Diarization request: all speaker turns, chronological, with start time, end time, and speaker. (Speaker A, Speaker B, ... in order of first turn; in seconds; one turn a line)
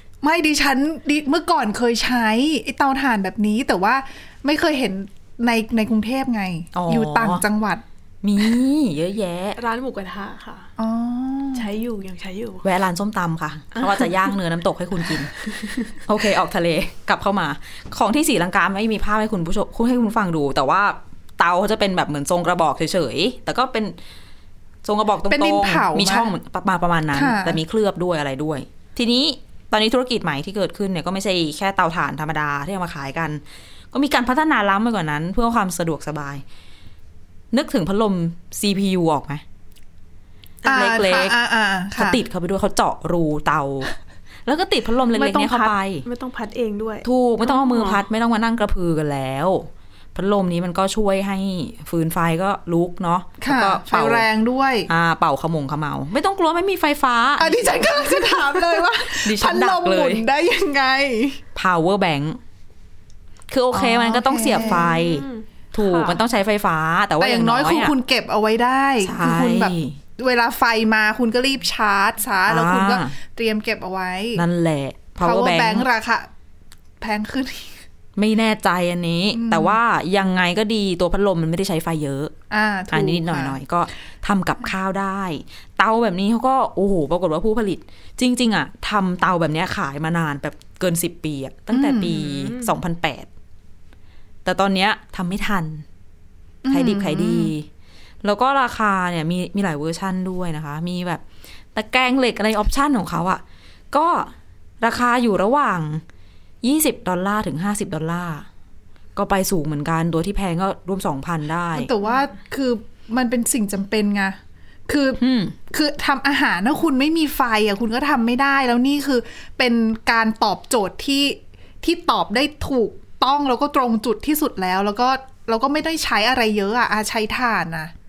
Speaker A: 0.2-7.8
Speaker B: 6.7-7.4
Speaker B: 8.2-9.6
Speaker C: 9.6-10.7
Speaker A: 10.8-11.7
Speaker C: 11.5-12.6
Speaker B: 12.6-15.4
Speaker C: 13.7-14.3
Speaker C: 15.4-15.8
Speaker B: 15.9-23.9
Speaker B: 24.8-36.4
Speaker A: 25.3-26.3
Speaker A: 27.1-27.6
Speaker B: 37.5-39.4
Speaker C: 40.6-41.0
Speaker A: 40.6-42.2
Speaker B: 40.7-41.3
Speaker B: 42.0-43.9
Speaker B: 44.5-46.0
Speaker C: 45.1-48.0
Speaker B: 47.0-54.2
Speaker A: 53.4-54.9
Speaker B: 54.9-58.0
Speaker A: 57.4-61.4
Speaker B: 59.0-60.2
Speaker B: 61.5-62.4
Speaker B: 63.5-67.9
Speaker A: 63.7-64.9
Speaker C: 64.6-66.2
Speaker A: 67.2-74.4
Speaker B: 69.0-70.0
Speaker B: 72.5-73.1
Speaker B: 74.3-75.8
Speaker A: 75.2-76.3
Speaker A: 77.0-77.8
Speaker B: 78.2-82.3
Speaker A: 79.3-79.8
Speaker A: 82.5-83.6
Speaker B: 82.9-93.3
Speaker A: 91.7-92.5
Speaker B: 94.4-95.8
Speaker A: 96.6-97.5
Speaker B: 96.7-97.7
Speaker B: 98.2-101.2
Speaker B: 101.7-106.0
Speaker B: 106.6-108.5
Speaker B: 109.1-111.9
Speaker A: 111.7-127.9
Speaker B: 115.2-115.5